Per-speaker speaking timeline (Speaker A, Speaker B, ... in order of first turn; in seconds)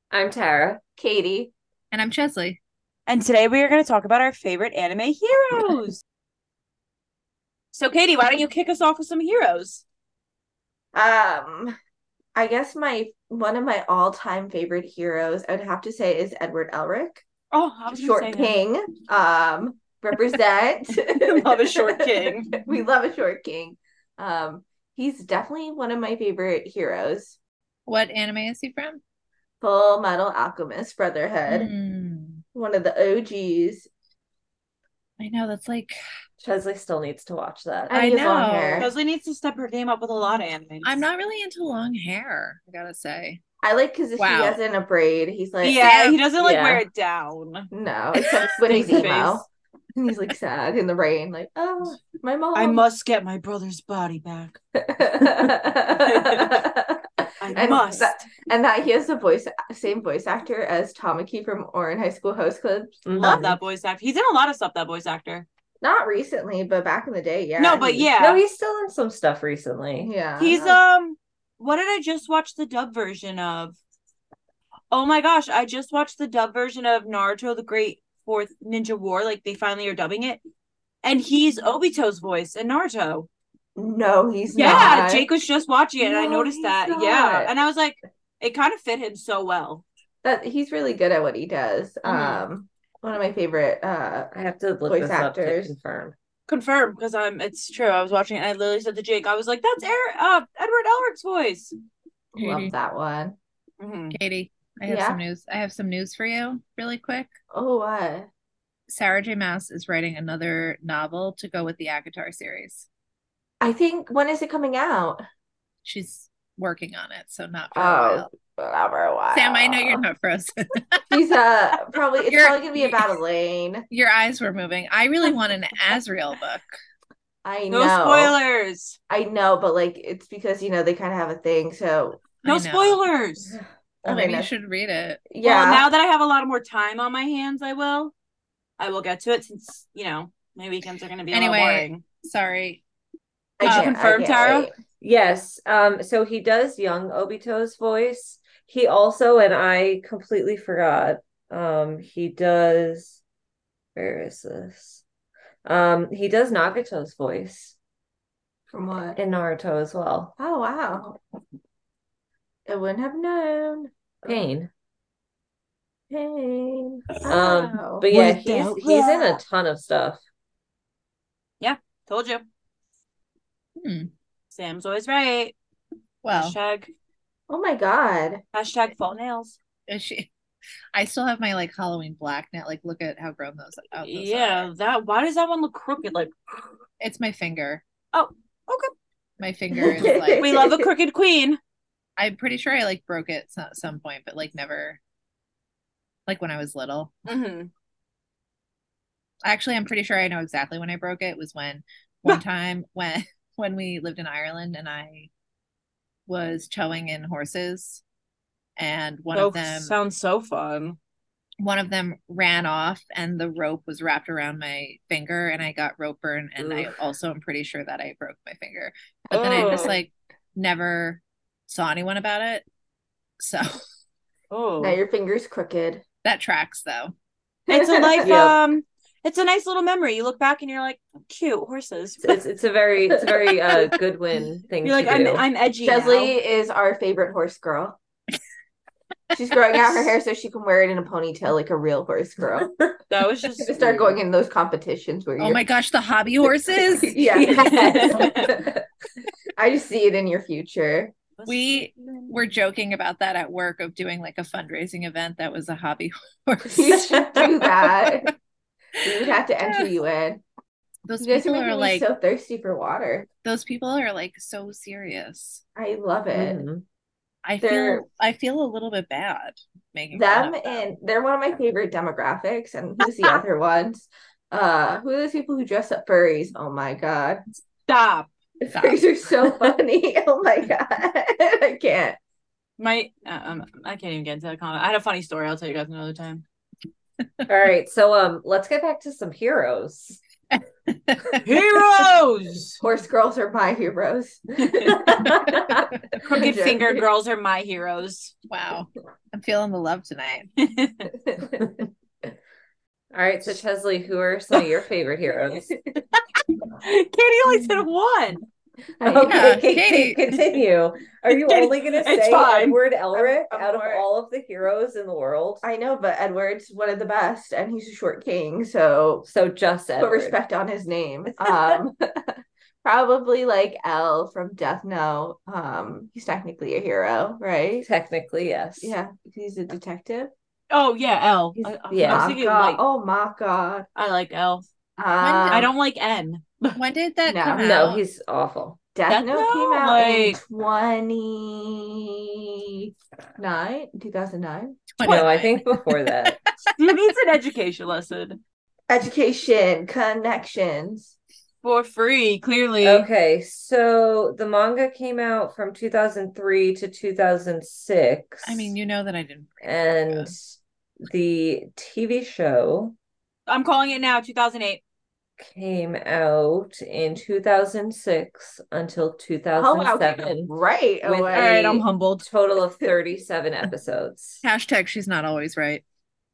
Speaker A: 0.1-0.8, 36.4-38.0, 46.4-46.8, 63.0-63.5, 68.2-70.7, 94.3-96.2, 145.0-153.2, 153.9-155.0, 155.7-157.8, 159.2-160.3, 164.2-164.7, 167.3-170.2, 216.6-216.9, 228.2-228.6, 232.2-235.4, 266.3-266.8, 287.5-290.2, 295.5-295.8, 303.1-305.7, 309.0-315.6, 319.2-320.4, 321.4-321.8, 327.8-328.9, 331.6-332.4, 337.6-338.8, 345.0-346.4, 352.8-358.8, 359.6-360.4, 361.0-362.9, 365.4-374.4
Speaker B: 1.0-1.5, 10.9-11.8, 12.3-17.2, 17.9-27.4, 29.6-31.7, 32.5-33.9, 37.9-38.9, 43.6-45.9, 47.7-52.8, 54.8-63.5, 65.8-68.1, 70.0-70.8, 83.8-85.3, 86.0-87.5, 90.2-94.3, 94.8-95.7, 102.3-103.4, 104.9-105.2, 107.5-108.3, 113.6-115.2, 117.7-120.1, 121.1-123.9, 127.4-128.3, 129.1-132.2, 134.1-134.5, 135.3-135.9, 143.6-144.7, 158.7-159.2, 160.4-161.2, 162.7-164.4, 166.1-168.1, 168.8-169.4, 177.5-178.4, 189.7-190.9, 219.3-220.0, 224.8-226.0, 227.7-228.4, 233.2-233.9, 235.8-238.0, 239.3-242.8, 243.6-245.6, 247.0-248.8, 249.6-251.1, 256.7-258.3, 259.0-260.4, 261.2-263.3, 265.8-266.6, 267.6-268.0, 270.1-277.4, 278.6-282.2, 292.8-295.8, 296.3-297.0, 301.1-301.7, 305.7-305.9, 309.0-309.6, 313.1-314.0, 315.6-319.3, 320.0-327.9, 328.8-330.3, 332.1-333.9, 335.0-335.7, 337.3-337.7, 338.9-344.8, 348.9-351.1, 369.6-371.8
Speaker C: 1.9-2.6, 27.9-29.0, 31.5-32.4, 35.2-36.0, 37.9-38.9, 40.8-43.4, 44.2-44.6, 45.8-46.2, 84.6-84.9, 102.4-102.7, 104.1-107.3, 108.9-112.9, 115.8-118.3, 119.3-121.1, 122.2-123.1, 123.9-126.8, 132.4-133.0, 134.1-135.2, 141.3-142.8, 143.6-143.9, 168.1-168.7, 173.8-174.1, 176.2-176.6, 179.9-180.3, 180.9-184.7, 187.0-187.8, 189.4-190.5, 192.2-195.0, 196.3-197.1, 199.4-205.3, 206.3-208.0, 208.8-209.9, 211.6-222.6, 223.4-223.8, 226.2-227.1, 245.4-248.3, 251.5-258.3, 259.0-259.9, 261.1-262.1, 263.4-265.6, 267.4-270.9, 278.7-279.0, 290.6-291.4, 298.5-300.5, 309.2-310.2, 335.2-335.7, 336.8-338.0, 344.9-346.7, 358.4-360.3, 374.4-375.8
Speaker D: 3.1-6.0, 7.7-9.8, 17.5-18.6, 21.1-22.6, 38.8-41.0, 45.6-47.7, 48.6-49.5, 52.5-54.6, 56.0-56.5, 57.4-58.1, 63.2-65.5, 67.6-68.4, 70.4-73.8, 74.9-80.4, 81.0-83.3, 84.5-89.8, 92.1-92.4, 96.5-101.7, 103.8-104.2, 127.7-129.0, 132.4-133.6, 135.4-138.1, 138.8-142.0, 143.6-144.7, 168.2-168.7, 171.6-172.4, 174.5-175.6, 176.3-176.9, 178.5-179.6, 184.0-186.7, 188.1-188.9, 190.1-191.6, 197.3-197.7, 209.3-211.0, 219.3-220.0, 224.5-225.0, 227.7-232.4, 234.8-236.3, 243.1-244.2, 247.6-248.5, 251.4-252.3, 277.9-278.3, 282.8-286.4, 291.4-292.8, 296.1-298.3, 300.6-301.1, 306.8-308.4, 311.3-312.8, 330.7-332.8, 333.9-334.7, 335.5-336.8, 339.1-340.4, 345.0-345.3, 346.8-348.4, 351.6-353.1, 363.5-364.8, 371.3-372.3